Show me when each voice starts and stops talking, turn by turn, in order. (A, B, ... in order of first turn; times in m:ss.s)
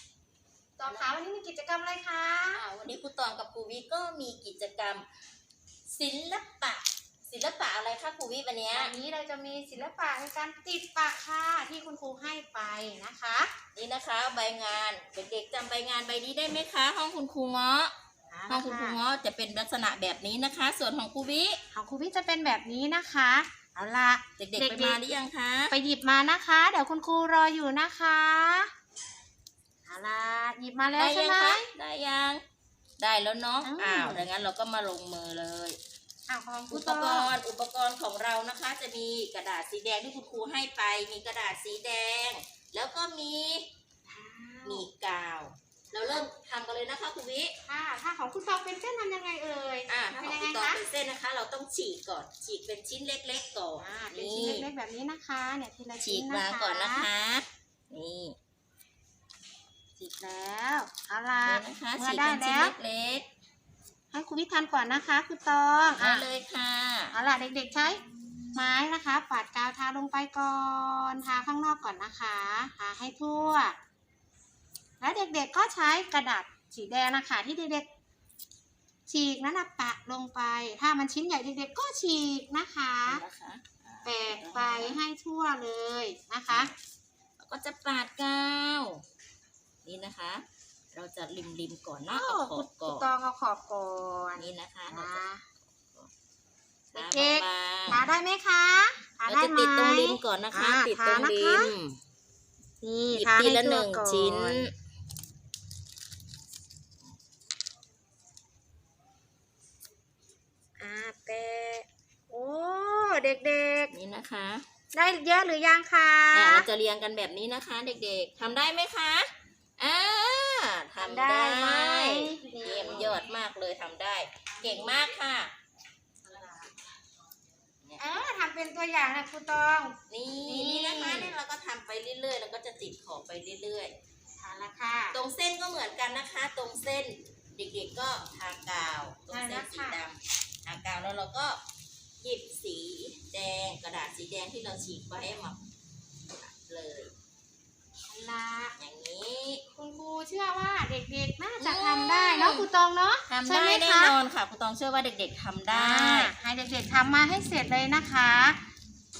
0:00.8-0:02.7 A
0:02.6-0:05.0 B
0:05.9-0:08.9 B
0:08.7-0:13.5 A
0:13.7-0:17.9 B
0:18.3-0:19.0 A
0:18.5-0:21.6 B
0:21.7-0:25.0 A
0:24.4-0:25.7 B
0:25.7-0:28.7 A
0:29.8-0:31.7 A
0:31.0-0:32.4 B
0:33.0-0:35.8 B
0:33.6-0:34.3 A
0:36.3-0:37.3 A
0:36.7-0:43.6 B
0:44.1-0:44.9 A
0:44.6-0:47.5 B
0:47.7-0:50.8 A
0:49.9-0:54.7 B
0:53.8-0:57.1 A
0:56.0-0:58.4 B
1:00.0-1:02.7 A
1:01.4-1:03.2 B
1:04.1-1:06.3 A
1:05.9-1:07.1 B
1:07.1-1:08.0 A
1:08.5-1:13.8 A
1:15.0-1:17.9 A
1:19.1-1:23.2 A
1:23.0-1:25.0 B
1:24.0-1:26.7 A
1:26.5-1:26.8 B
1:27.4-1:29.0 B
1:29.8-1:33.1 B
1:32.1-1:35.4 A
1:34.4-1:35.2 B
1:36.9-1:41.7 A
1:36.9-1:38.1 B
1:39.3-1:42.0 B
1:42.8-1:44.7 A
1:43.1-1:44.7 B
1:50.8-1:53.9 A
1:53.9-1:54.6 B
1:54.9-1:56.7 A
1:56.3-2:05.5 B
2:01.0-2:03.3 A
2:04.6-2:05.2 A
2:06.2-2:06.7 A
2:08.0-2:11.4 A
2:10.1-2:13.9 B
2:14.4-2:15.2 A
2:15.1-2:21.6 B
2:19.3-2:20.0 A
2:22.2-2:25.6 B
2:26.4-2:27.1 B
2:28.1-2:28.7 A
2:28.8-2:29.6 B
2:29.7-2:34.1 A
2:31.6-2:32.7 B
2:33.3-2:36.3 B
2:35.7-2:38.6 A